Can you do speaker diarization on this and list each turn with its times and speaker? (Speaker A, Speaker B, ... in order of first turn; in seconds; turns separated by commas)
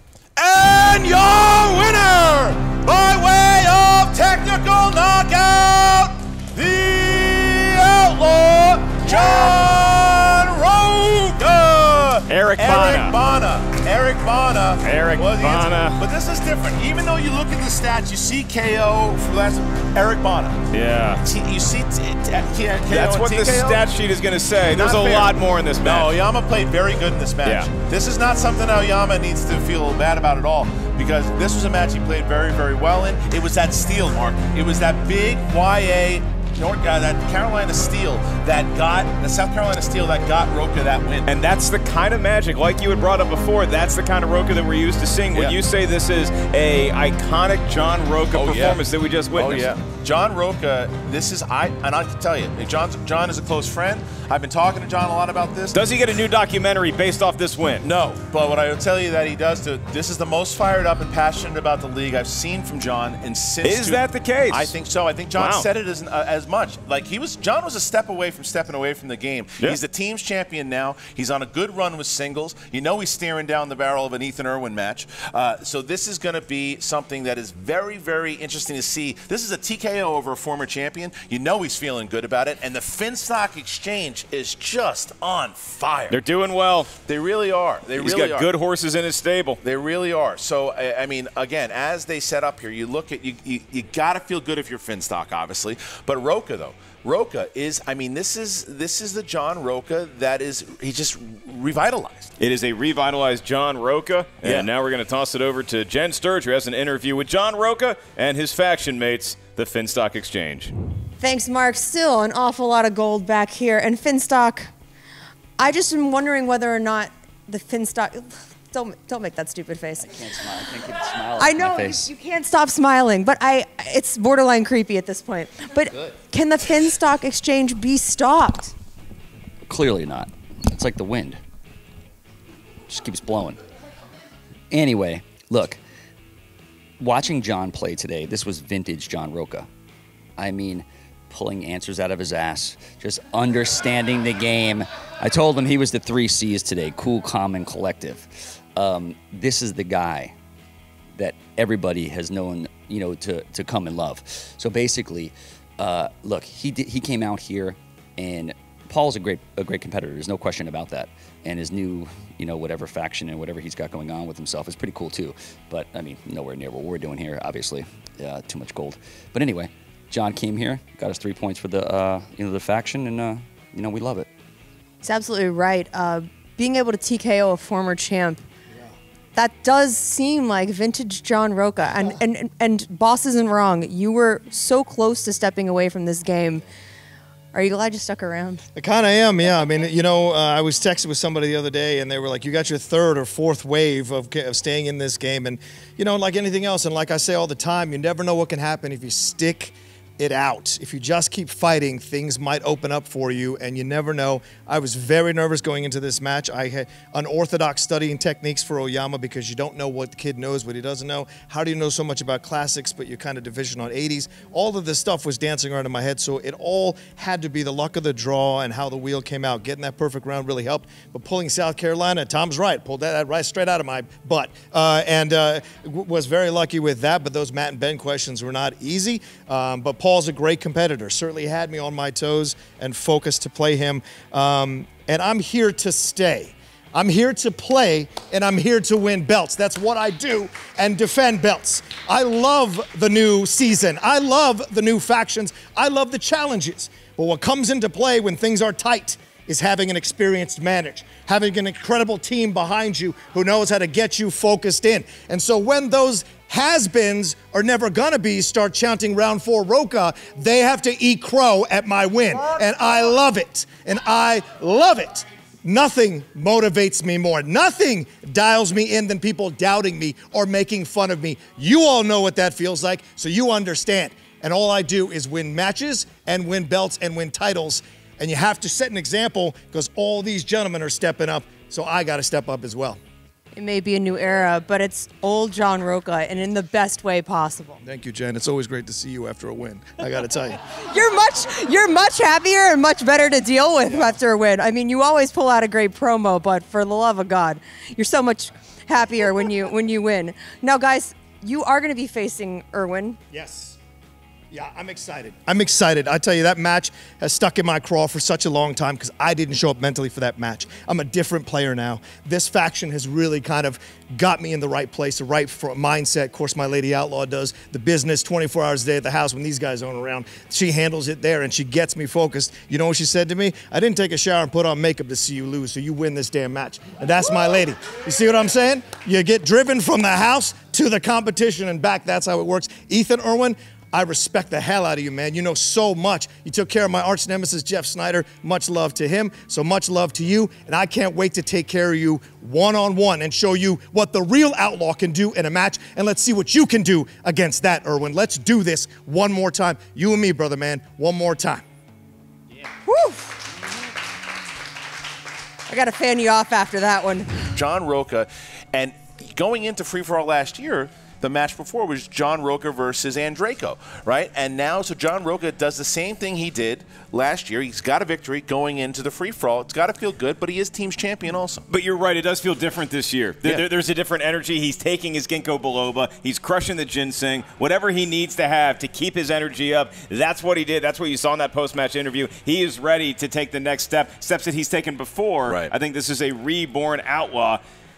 Speaker A: 0.4-23.8, Speaker B: 12.3-13.2, Speaker B: 14.8-16.0, Speaker B: 20.7-21.2, Speaker B: 22.9-26.1, Speaker A: 24.7-41.3, Speaker B: 27.4-27.7, Speaker B: 41.3-49.7, Speaker A: 48.3-48.8, Speaker A: 49.4-55.8, Speaker B: 55.7-57.9, Speaker A: 57.8-86.2, Speaker B: 63.6-64.8, Speaker B: 65.3-65.7, Speaker B: 86.1-86.9, Speaker A: 87.0-88.5, Speaker B: 88.0-89.6, Speaker A: 89.6-102.3, Speaker B: 102.4-110.7, Speaker A: 104.4-104.7, Speaker C: 111.2-114.7, Speaker C: 115.6-120.3, Speaker D: 120.0-122.1, Speaker C: 121.4-128.7, Speaker D: 129.7-131.4, Speaker D: 132.9-133.6, Speaker D: 134.7-135.8, Speaker D: 137.0-139.7, Speaker D: 140.4-150.3, Speaker D: 151.2-174.3, Speaker C: 175.0-178.4, Speaker C: 179.3-186.7, Speaker C: 187.5-188.6, Speaker E: 188.8-283.0, Speaker C: 283.6-287.8, Speaker E: 287.8-290.7, Speaker C: 290.7-303.2, Speaker E: 303.3-303.8, Speaker E: 304.5-351.6, Speaker C: 352.9-353.4, Speaker C: 355.7-357.5, Speaker A: 357.5-371.6, Speaker B: 371.7-387.6